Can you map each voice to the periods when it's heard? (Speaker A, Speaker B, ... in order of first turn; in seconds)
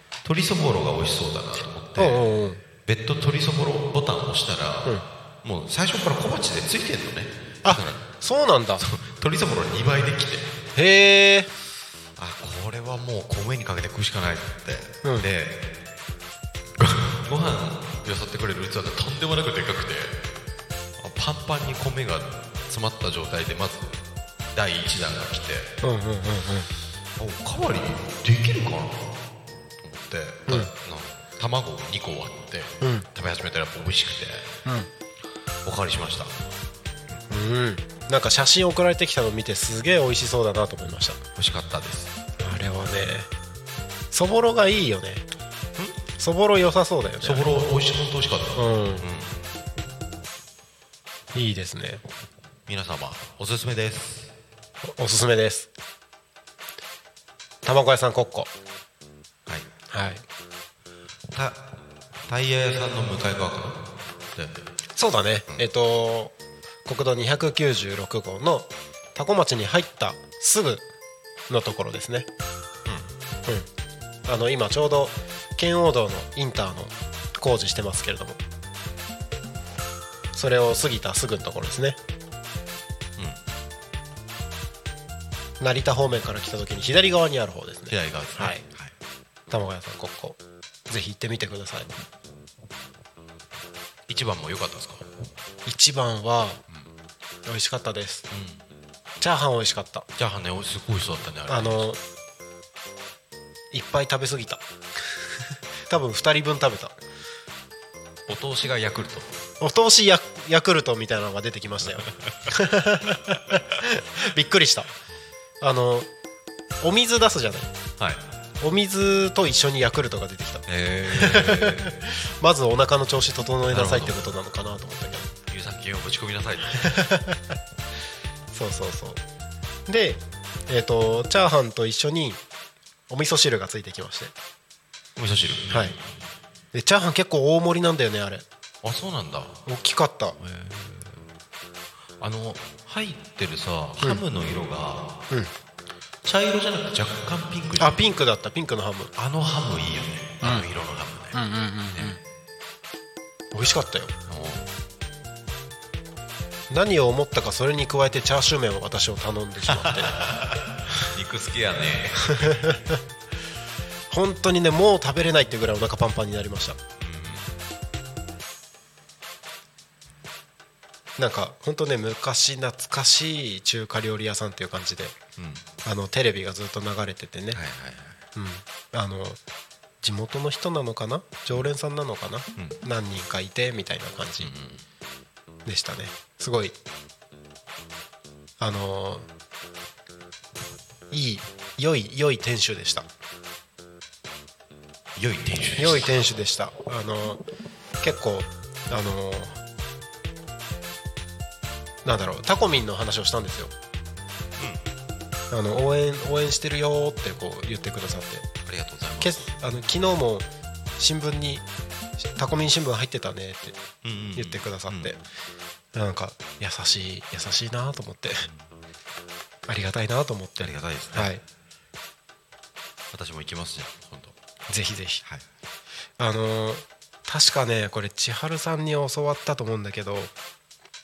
Speaker A: 0.2-2.2, 2.8-8.1, 8.8-10.5, 12.2-15.7, 16.8-20.2, 21.0-24.0, 24.5-25.7, 27.2-29.2, 29.8-34.6, 35.6-36.3, 41.4-42.1, 45.8-46.0, 47.2-49.4, 52.7-54.3, 61.3-64.7, 87.9-88.9, 94.1-95.1, 98.3-98.6, 100.1-101.9, 108.3-109.3, 120.7-122.0, 123.7-124.2, 125.5-126.9, 135.2-136.1, 138.8-139.6, 140.4-141.3, 142.2-145.2, 146.2-148.0, 149.2-152.2, 154.3-154.7, 159.7-162.8, 167.0-167.5, 175.4-175.6, 177.5-178.2, 184.4-184.8, 195.2-196.3, 204.6-204.8, 208.7-209.6, 214.0-215.2, 220.6-221.3, 223.1-224.3
Speaker B: 1.9-2.6, 7.6-8.8, 10.7-11.5, 15.0-15.3, 25.8-26.7, 32.8-33.1, 37.3-41.2, 42.4-43.3, 44.1-45.2, 46.2-47.5, 48.6-49.0, 51.3-52.0, 54.9-55.7, 57.6-58.5, 59.9-60.2, 65.0-66.3, 66.8-70.8, 71.5-72.3, 74.2-78.4, 80.3-82.0, 85.6-88.6, 89.5-91.9, 95.7-96.6, 97.5-98.2, 99.2-100.0, 101.5-102.0, 103.7-104.6, 105.9-107.0, 109.6-114.9, 115.6-116.1, 116.8-117.7, 118.6-125.3, 126.8-127.5, 128.5-129.2, 129.9-132.4, 133.1-134.3, 136.7-138.4, 139.7-140.4, 147.8-149.1, 150.4-150.7, 151.3-152.2, 153.5-154.1, 156.7-160.2, 162.4-163.0, 164.1-166.8, 171.2-175.2, 175.8-177.6, 178.3-179.4, 180.0-184.5, 185.6-186.8, 188.6-189.3, 191.1-193.1, 195.8-197.4, 198.0-199.6, 202.0-203.7, 205.5-208.5, 209.2-211.7, 212.3-213.8, 214.3-215.2, 215.9-218.4, 219.7-221.4, 224.7-225.2, 226.2-230.3